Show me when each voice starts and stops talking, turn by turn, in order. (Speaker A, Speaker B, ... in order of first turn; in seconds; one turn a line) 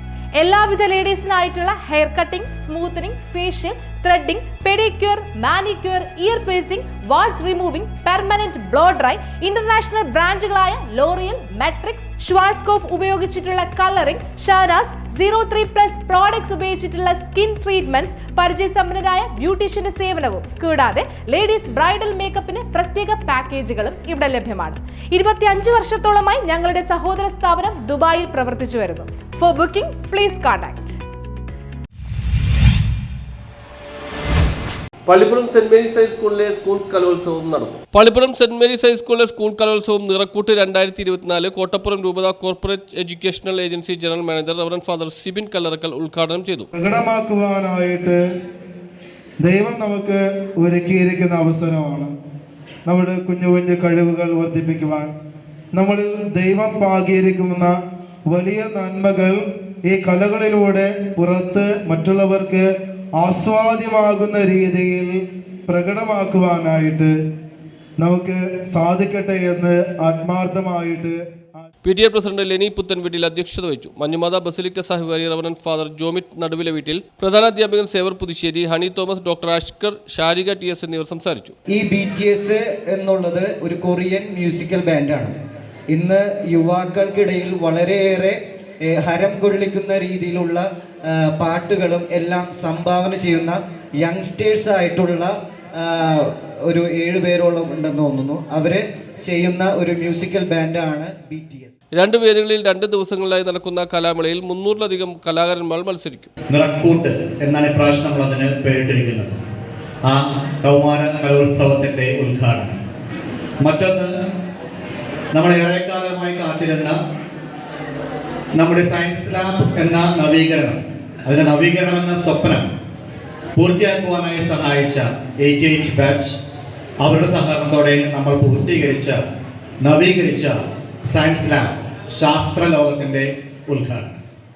Speaker A: 0.4-31.0
Speaker B: 35.1-46.7
Speaker C: 46.7-48.2
Speaker C: 49.4-52.1
Speaker C: 52.9-55.1
Speaker C: 55.8-62.7
Speaker C: 63.2-65.1
Speaker C: 65.7-67.1
Speaker C: 68.0-71.7
Speaker B: 71.8-81.5
Speaker D: 81.7-85.3
Speaker D: 85.9-88.4
Speaker D: 88.9-95.3
Speaker D: 95.8-101.7
Speaker B: 102.0-106.3
Speaker E: 106.5-109.4
Speaker E: 110.1-112.8
Speaker E: 113.6-114.1
Speaker E: 115.3-117.0
Speaker E: 118.6-122.7
Speaker E: 123.6-126.4
Speaker E: 127.0-129.2
Speaker E: 129.8-134.2